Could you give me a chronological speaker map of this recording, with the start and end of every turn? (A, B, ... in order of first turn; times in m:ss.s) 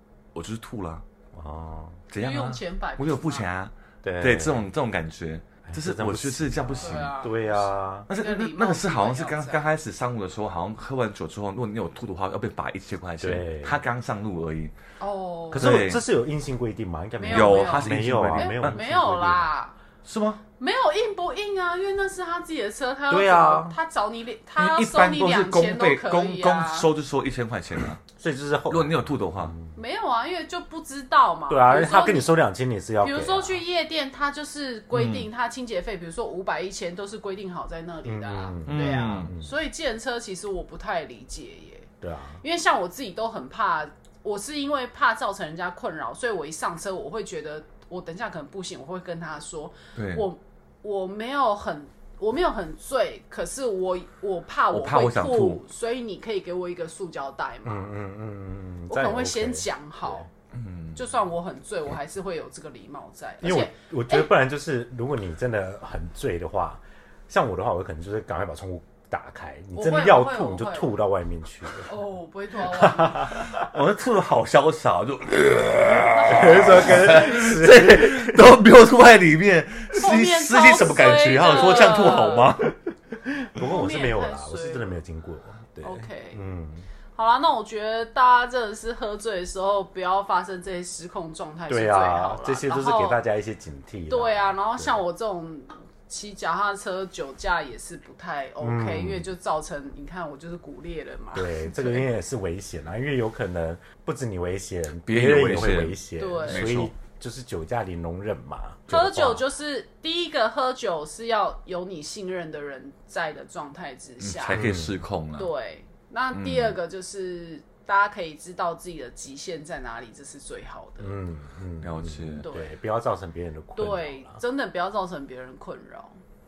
0:00.3-0:01.0 A
0:01.3-0:02.0 B
0:02.1-0:07.1 A
0:02.2-0:03.5 C
0:04.0-0:04.6 B
0:05.6-0:08.1 B
0:06.8-0:09.6 C
0:08.1-0:14.7 A
0:13.2-0:13.8 B
0:15.0-0:15.7 C
0:15.5-0:19.5 B
0:15.6-0:16.0 A
0:17.2-0:19.8 C
0:17.3-0:18.8 A
0:20.0-0:20.4 A
0:20.6-0:26.9 C
0:23.1-0:23.8 B
0:24.6-0:28.0 A
0:28.2-0:29.7 B
0:28.7-0:29.6 A
0:29.8-0:32.3 C
0:31.5-0:33.6 B
0:33.0-0:41.9 C
0:34.9-0:35.3 A
0:38.0-0:39.5 B
0:38.7-0:39.4 A
0:42.0-0:42.4 B
0:42.4-0:57.9 C
0:50.0-0:50.3 A
0:54.7-0:55.6 A
0:57.6-1:00.2 B
0:58.9-1:00.3 C
1:00.5-1:01.0 A
1:01.0-1:04.3 C
1:03.4-1:11.9 B
1:09.7-1:10.9 C
1:11.7-1:13.5 C
1:12.7-1:13.6 B
1:13.4-1:22.7 A
1:16.0-1:17.5 C
1:16.3-1:18.6 B
1:20.0-1:22.6 C
1:23.1-1:26.9 B
1:23.6-1:25.0 C
1:25.8-1:26.4 C
1:27.2-1:33.2 C
1:31.7-1:35.0 B
1:34.1-1:42.1 C
1:38.6-1:39.3 B
1:41.4-1:49.4 B
1:45.0-1:46.9 A
1:46.2-1:46.7 C
1:48.9-1:54.6 C
1:54.2-1:55.5 A
1:54.5-1:55.0 B
1:55.4-2:01.2 C
1:56.3-1:56.8 A
2:01.0-2:04.4 B
2:01.8-2:02.5 A
2:02.4-2:02.7 C
2:03.8-2:06.2 C